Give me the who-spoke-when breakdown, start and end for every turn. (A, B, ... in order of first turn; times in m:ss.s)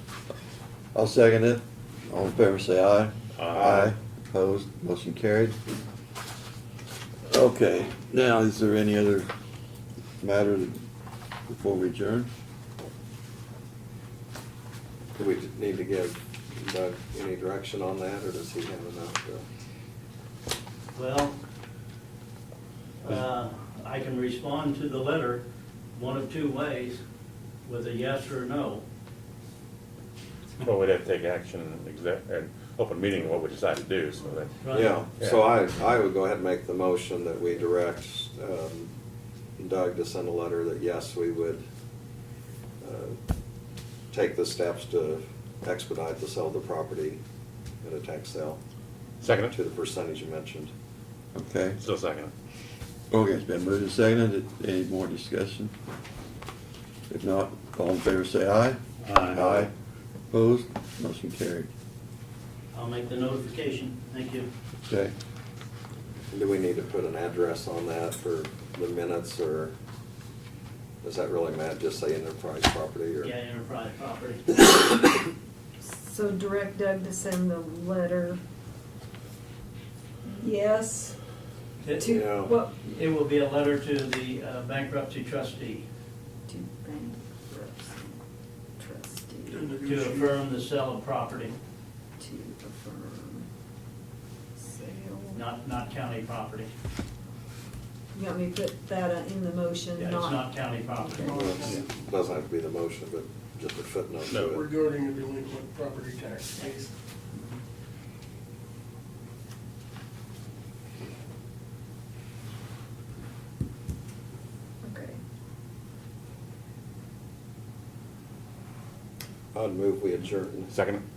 0:00.9-0:05.6 A
0:03.4-0:03.9 B
0:07.3-0:09.3 A
0:10.2-0:10.8 A
0:11.5-0:12.3 A
0:15.2-0:19.4 C
0:21.0-0:21.4 D
0:23.0-0:25.4 D
0:26.0-0:27.0 D
0:27.6-0:28.8 D
0:30.6-0:34.6 B
0:34.6-0:35.0 D
0:34.7-0:38.9 C
0:39.6-0:41.6 C
0:42.8-0:43.2 C
0:44.1-0:47.2 C
0:47.8-0:48.6 C
0:49.2-0:49.6 B
0:49.3-0:50.7 C
0:51.3-0:51.8 A
0:51.8-0:52.3 B
0:53.1-0:55.7 A
0:57.1-0:59.7 A
0:59.0-0:59.7 B
1:00.3-1:01.7 A
1:02.7-1:04.5 D
1:06.3-1:09.7 C
1:11.0-1:13.3 C
1:13.2-1:14.6 D
1:15.8-1:18.4 E
1:20.2-1:21.2 E
1:21.8-1:22.1 D
1:21.9-1:22.8 E
1:22.1-1:22.6 C
1:22.8-1:25.9 D
1:26.5-1:28.2 E
1:28.8-1:29.7 E
1:29.5-1:30.3 F
1:29.8-1:31.6 D
1:32.2-1:33.5 E
1:34.6-1:35.4 E
1:35.4-1:36.7 D
1:38.1-1:41.4 E
1:40.0-1:41.7 D
1:41.2-1:41.8 F
1:41.3-1:44.7 C
1:44.3-1:44.6 B
1:44.5-1:46.9 F
1:54.8-1:55.2 E
1:59.5-2:00.7 C
2:00.7-2:01.0 B